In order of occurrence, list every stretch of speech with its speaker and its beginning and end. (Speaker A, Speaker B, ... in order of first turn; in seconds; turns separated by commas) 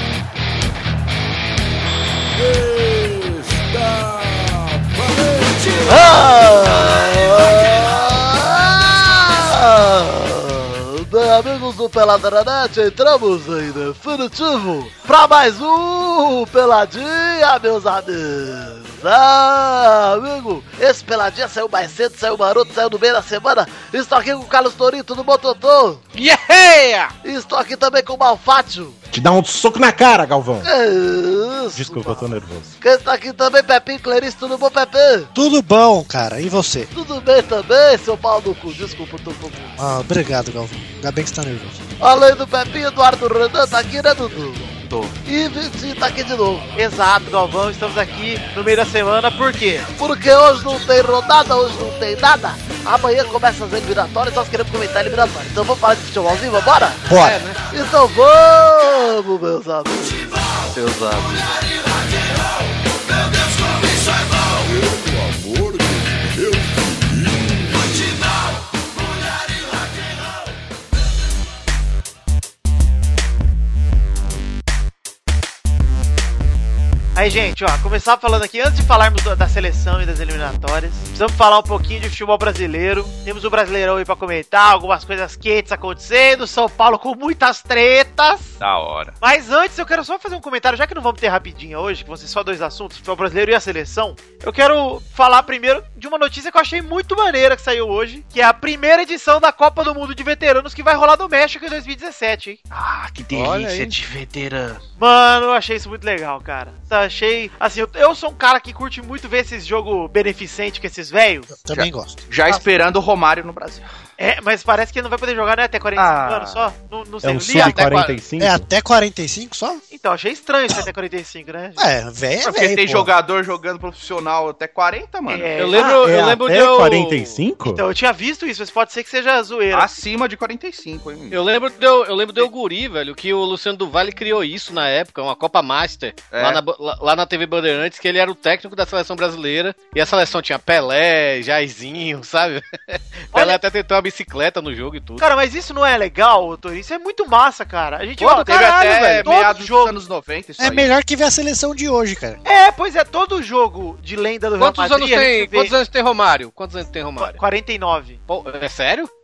Speaker A: 2.3-6.4, Speaker B: 5.8-26.0, Speaker C: 26.1-27.1, Speaker B: 27.2-29.0, Speaker D: 29.1-30.7, Speaker B: 30.6-32.3, Speaker D: 31.7-32.8, Speaker B: 32.8-35.3, Speaker E: 35.3-36.9, Speaker B: 36.9-39.8, Speaker E: 39.8-41.8, Speaker B: 42.0-46.7, Speaker F: 46.8-49.9, Speaker B: 50.0-57.0, Speaker E: 57.0-57.4, Speaker C: 57.1-57.6, Speaker B: 57.7-60.3, Speaker G: 60.7-61.3, Speaker A: 64.5-68.1, Speaker F: 77.1-88.6, Speaker G: 88.6-89.1, Speaker F: 89.2-102.6, Speaker B: 102.9-104.7, Speaker C: 103.3-104.0, Speaker F: 105.0-111.5, Speaker E: 111.5-112.2, Speaker G: 111.7-113.9, Speaker F: 114.2-118.1, Speaker G: 116.0-116.7, Speaker D: 117.2-118.7, Speaker C: 117.5-118.1, Speaker E: 118.4-119.8, Speaker F: 119.9-121.9, Speaker E: 121.8-123.1, Speaker G: 122.4-125.5, Speaker F: 125.3-126.0, Speaker C: 125.5-127.3, Speaker D: 125.8-127.8, Speaker F: 127.7-130.0, Speaker G: 129.7-131.4, Speaker C: 131.3-145.2, Speaker G: 136.3-136.6, Speaker F: 143.3-143.6, Speaker F: 145.2-149.9, Speaker G: 148.2-150.9, Speaker C: 148.5-149.2, Speaker E: 150.6-152.4, Speaker F: 152.4-155.7, Speaker C: 154.6-157.4, Speaker F: 157.2-158.2, Speaker C: 158.3-159.1